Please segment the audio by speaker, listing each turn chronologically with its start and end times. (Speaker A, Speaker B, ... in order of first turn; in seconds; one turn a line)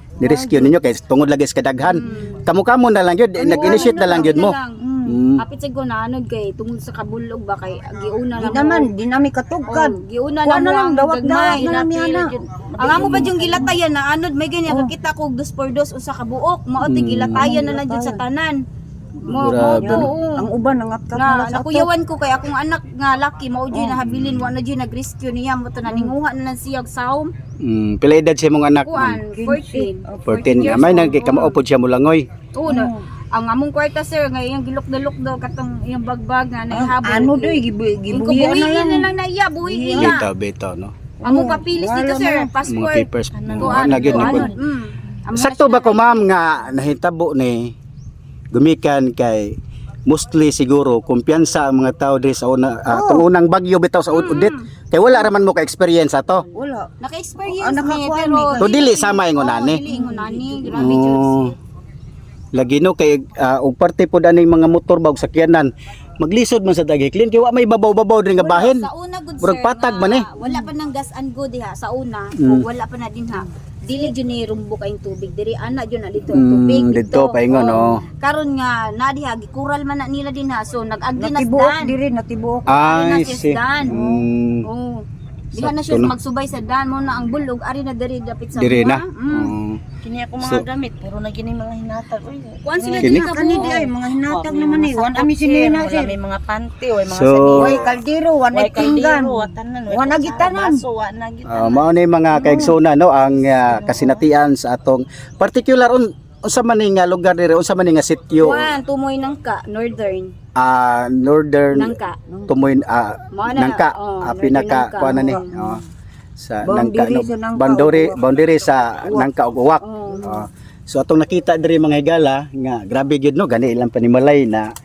Speaker A: 0.2-0.8
Speaker B: 0.2-5.4
Speaker C: 1.9-2.4
Speaker C: 3.4-4.8
Speaker A: 3.5-5.2
Speaker C: 5.4-8.9
Speaker A: 8.3-13.8
Speaker C: 9.7-11.8
Speaker D: 11.5-13.5
Speaker C: 12.8-18.6
Speaker B: 12.9-13.3
Speaker A: 14.7-14.9
Speaker B: 16.8-17.5
Speaker A: 17.3-18.2
Speaker C: 19.2-20.5
Speaker B: 19.3-20.1
Speaker A: 19.7-21.9
Speaker C: 21.1-27.3
Speaker B: 23.7-24.5
Speaker A: 25.9-26.1
Speaker B: 27.6-29.2
Speaker C: 28.8-31.6
Speaker A: 29.3-31.1
Speaker B: 30.3-32.3
Speaker C: 32.5-40.3
Speaker A: 32.7-33.0
Speaker A: 36.7-39.1
Speaker A: 39.6-40.2
Speaker B: 40.0-40.9
Speaker A: 41.2-42.5
Speaker C: 41.2-46.3
Speaker B: 42.6-44.5
Speaker D: 43.3-44.6
Speaker B: 45.3-47.7
Speaker B: 48.5-49.5
Speaker B: 50.1-56.5
Speaker A: 52.9-53.2
Speaker C: 54.1-54.6
Speaker A: 56.5-56.9
Speaker C: 57.0-61.6
Speaker A: 57.5-58.8
Speaker B: 58.6-59.8
Speaker A: 59.9-60.8
Speaker B: 60.7-61.5
Speaker B: 62.5-68.9
Speaker C: 68.4-82.0
Speaker B: 69.4-70.7
Speaker B: 72.4-72.7
Speaker B: 76.3-78.0
Speaker A: 81.2-82.8
Speaker B: 82.7-84.6
Speaker C: 82.8-89.5
Speaker A: 83.9-84.2
Speaker B: 85.5-86.1
Speaker B: 88.5-89.8
Speaker D: 90.0-97.9
Speaker C: 92.6-93.8
Speaker B: 93.0-93.3
Speaker A: 93.2-96.1
Speaker B: 97.1-97.9
Speaker A: 97.5-100.8
Speaker D: 98.5-102.6
Speaker B: 101.5-108.7
Speaker A: 102.4-102.8
Speaker D: 103.7-104.2
Speaker C: 108.3-110.3
Speaker B: 110.5-112.0
Speaker C: 111.7-112.2
Speaker B: 112.5-115.8
Speaker C: 113.3-115.6
Speaker A: 115.0-115.4
Speaker B: 116.4-124.7
Speaker A: 116.6-118.2
Speaker A: 118.9-119.3
Speaker C: 119.8-120.4